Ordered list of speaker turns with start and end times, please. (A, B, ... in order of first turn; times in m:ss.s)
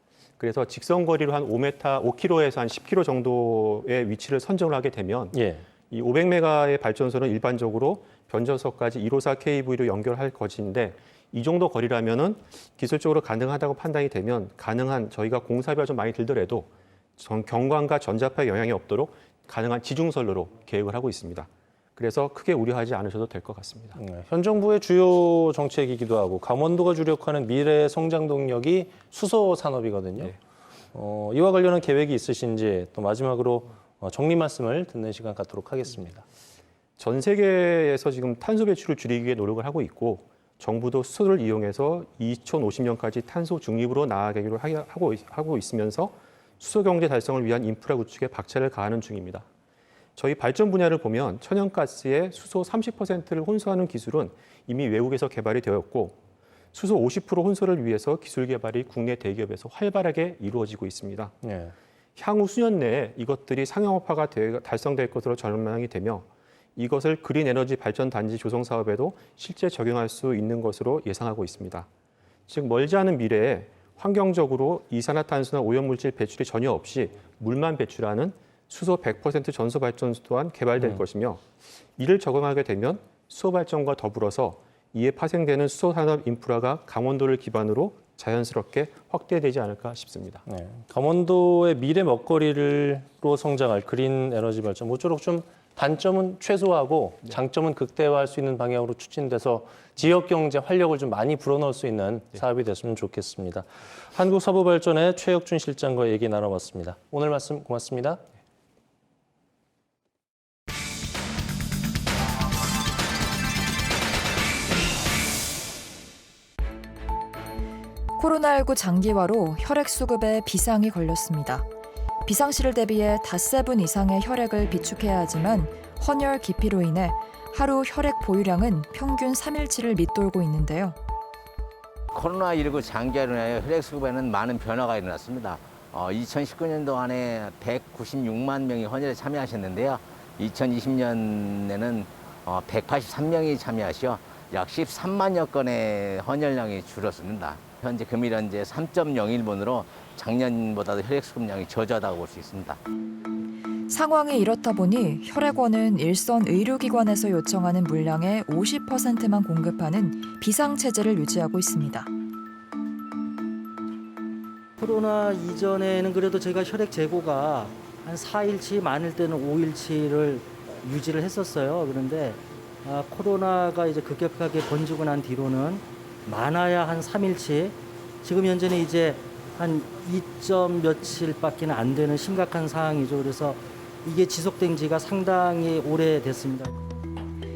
0:00.4-0:05.4 A
0:05.3-0:05.6 B
0:05.9-0:24.0 A
0:24.0-0:30.4 B
0:30.9-0:36.2 B
0:37.0-0:49.5 A
0:50.2-0:56.2 A
0:56.7-1:01.4 A
1:01.4-1:01.7 B
1:02.2-1:11.9 A
1:12.5-1:21.4 A
1:22.0-1:30.4 A
1:30.5-1:48.2 B
1:58.2-2:01.7 C
2:02.2-2:11.0 C
2:12.1-2:32.8 D
2:33.9-2:42.1 C
2:44.8-3:06.7 E